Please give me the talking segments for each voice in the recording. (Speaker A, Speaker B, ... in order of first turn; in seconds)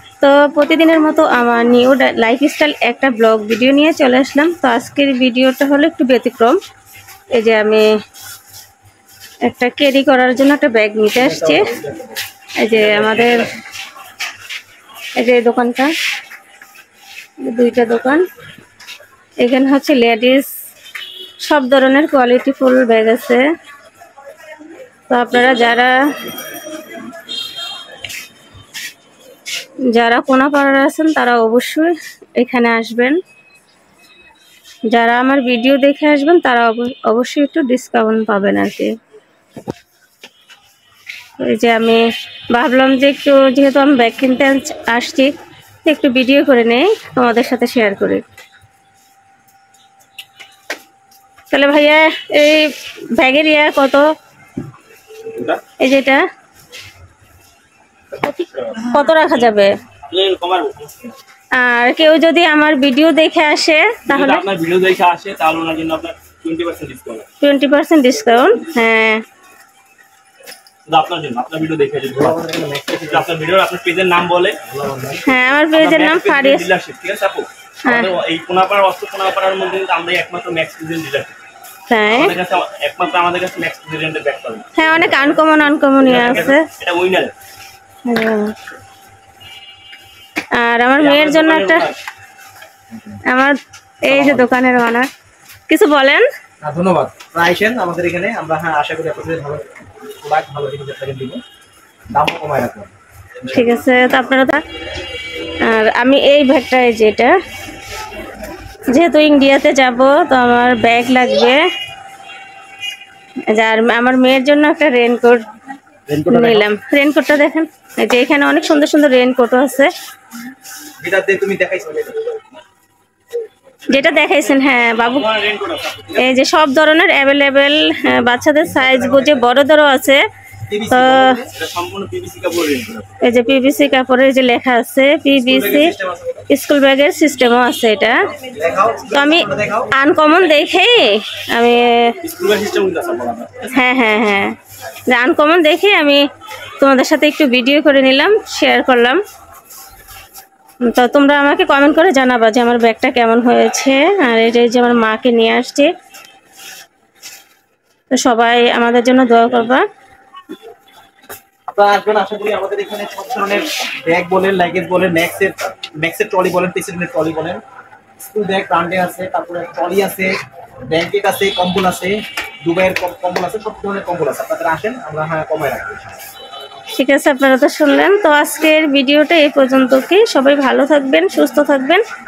Speaker A: 0.2-6.6, 7.3-7.9, 9.4-11.7, 12.6-13.5, 15.2-15.9, 17.4-18.2, 19.4-20.5, 21.4-23.4, 25.1-26.0, 29.9-33.2, 34.9-38.9, 41.4-45.3, 45.8-48.2, 51.5-54.0, 55.8-56.2, 58.8-59.7, 61.5-64.4, 67.4-69.2, 75.2-76.7, 77.8-78.1, 81.9-82.3, 84.8-86.7, 88.0-88.5, 90.5-91.9, 93.3-95.1, 95.7-96.2, 103.5-104.6, 105.6-107.3, 108.9-111.6, 113.5-115.5, 116.3-119.9, 123.9-125.3, 126.2-130.2, 130.9-131.3, 133.2-135.9, 136.5-138.3, 139.1-142.2, 143.7-144.5, 145.1-146.2, 146.8-149.2, 150.8-155.9, 158.1-159.8, 176.9-182.0
Speaker B: 11.2-12.2, 12.8-13.4, 72.1-73.3, 74.7-75.3, 92.9-93.2, 94.1-94.5, 96.6-101.4, 102.1-103.8, 116.1-116.7, 121.0-122.3, 128.6-129.5, 130.7-131.5, 135.3-136.5, 138.5-139.9, 161.7-167.6, 168.2-170.3, 170.9-176.1
Speaker C: 55.3-55.6, 58.1-59.0, 60.0-61.1, 64.0-67.3, 70.9-72.4, 72.9-74.6, 75.7-81.3, 82.1-87.3, 91.0-92.0, 124.9-126.3, 131.5-133.1, 142.2-143.7